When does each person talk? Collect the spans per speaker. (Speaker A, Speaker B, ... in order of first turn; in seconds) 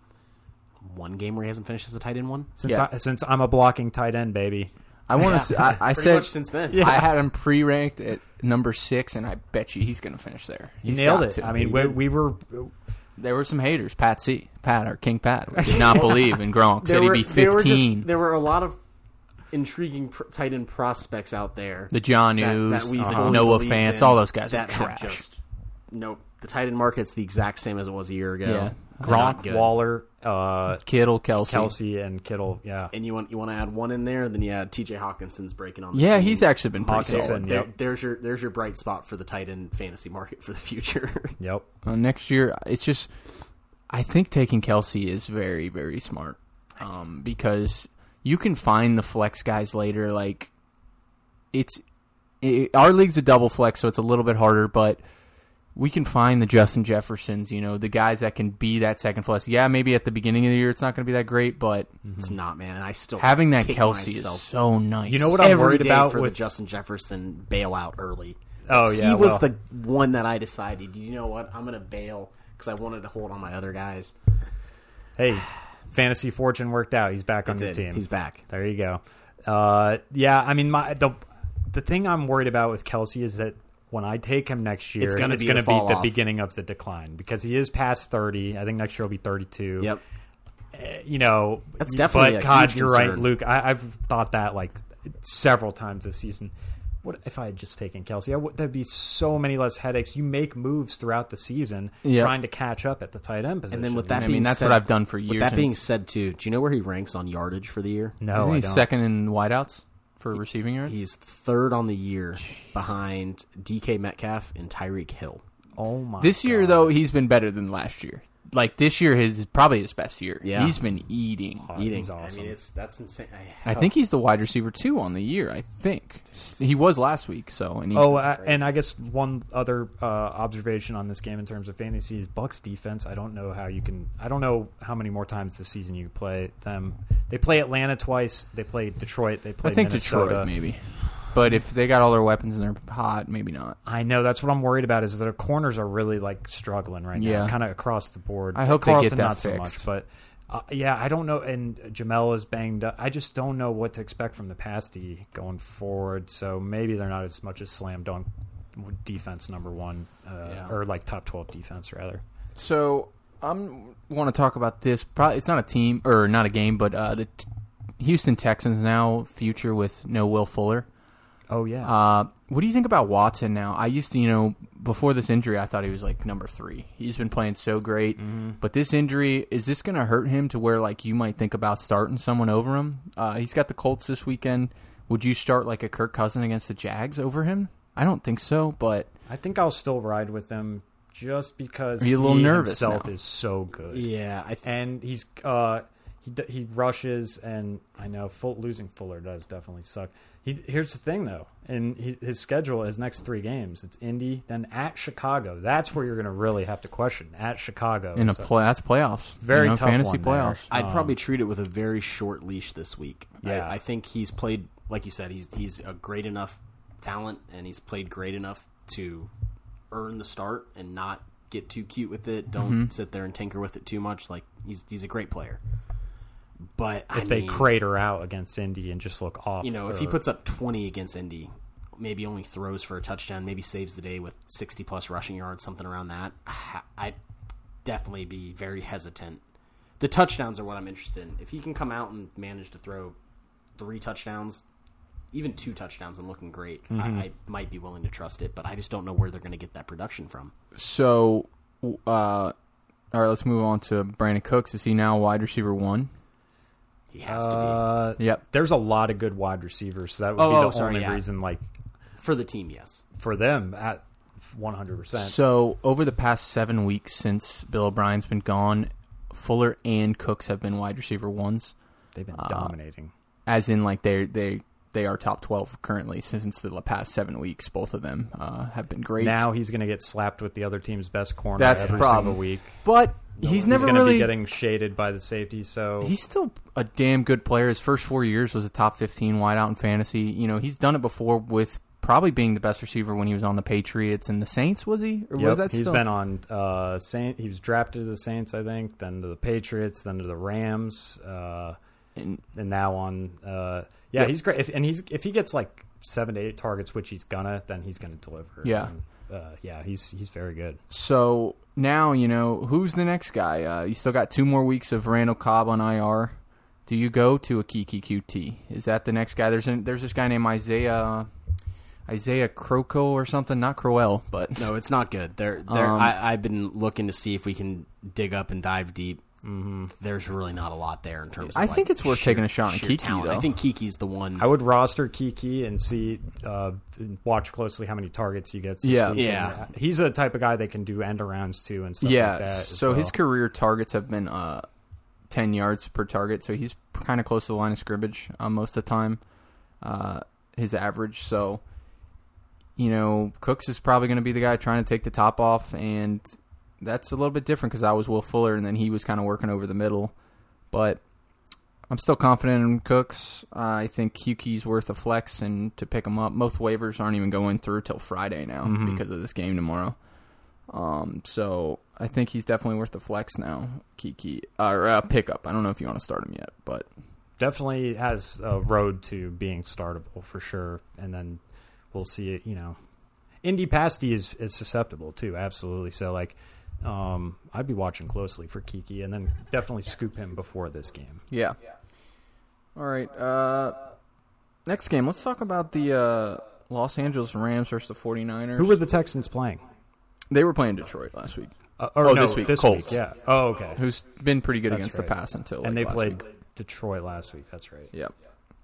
Speaker A: 0.8-2.5, 5.2-7.0, 15.7-18.8, 19.5-25.4, 25.9-29.8, 32.9-41.4, 62.2-64.5, 65.4-74.2, 77.5-78.4, 85.0-86.2, 91.8-93.3, 103.7-108.2, 110.8-115.4, 120.4-120.8, 121.7-123.9, 128.2-128.7, 160.5-160.7, 193.9-194.7, 210.7-219.3, 219.9-225.6, 226.7-227.7, 229.6-237.2, 237.8-239.4, 240.0-243.2, 243.8-244.6, 245.3-250.5, 257.1-257.8, 260.4-261.2, 262.2-263.0, 281.8-282.1, 283.4-284.0, 324.6-329.2, 330.0-334.5, 339.1-339.6
Speaker B: 2.6-4.7, 6.7-7.0, 10.8-12.7, 23.0-23.5, 29.0-30.9, 31.4-32.9, 36.8-37.7, 41.4-41.7, 62.0-62.3, 65.1-66.4, 68.7-69.5, 75.2-89.9, 90.7-96.5, 97.0-104.4, 108.2-108.9, 115.8-116.9, 121.6-122.6, 127.9-140.5, 143.9-162.2, 171.5-171.9, 178.2-178.6, 189.3-194.1, 194.6-208.5, 209.4-211.2, 213.4-213.8, 227.1-230.2, 246.9-247.3, 257.3-261.7, 263.2-265.4, 272.1-273.1, 279.2-282.8, 283.4-286.1, 295.4-301.8, 302.5-310.8, 329.4-329.9, 334.4-343.1, 368.6-369.0, 377.4-381.4, 381.9-382.8, 383.4-391.2, 398.6-399.7, 401.8-403.8, 404.7-407.9
Speaker C: 5.1-11.9, 13.2-18.1, 21.9-25.2, 28.4-29.4, 30.8-31.7, 35.9-37.5, 41.9-43.1, 43.9-50.5, 51.5-51.8, 52.4-55.0, 55.8-62.0, 63.2-65.4, 102.0-102.4, 104.1-105.8, 108.3-111.0, 116.2-121.7, 123.7-128.3, 139.6-143.8, 147.2-147.6, 148.6-149.8, 162.6-167.5, 168.0-170.9, 171.8-189.1, 192.0-193.1, 208.2-210.7, 222.6-222.9, 250.7-252.5, 253.1-256.1, 265.1-271.8, 272.3-272.7, 273.5-279.5, 281.6-284.3, 286.0-296.0, 302.2-302.4, 308.6-308.9, 310.9-316.4, 316.9-321.3, 322.1-324.7, 325.7-326.1, 331.5-333.5, 338.8-339.4, 342.0-344.7, 345.3-349.2, 349.8-351.6, 352.8-360.1, 360.7-361.0, 361.9-370.0, 370.7-376.9, 391.3-391.6, 392.8-393.8, 394.7-398.8, 400.3-406.2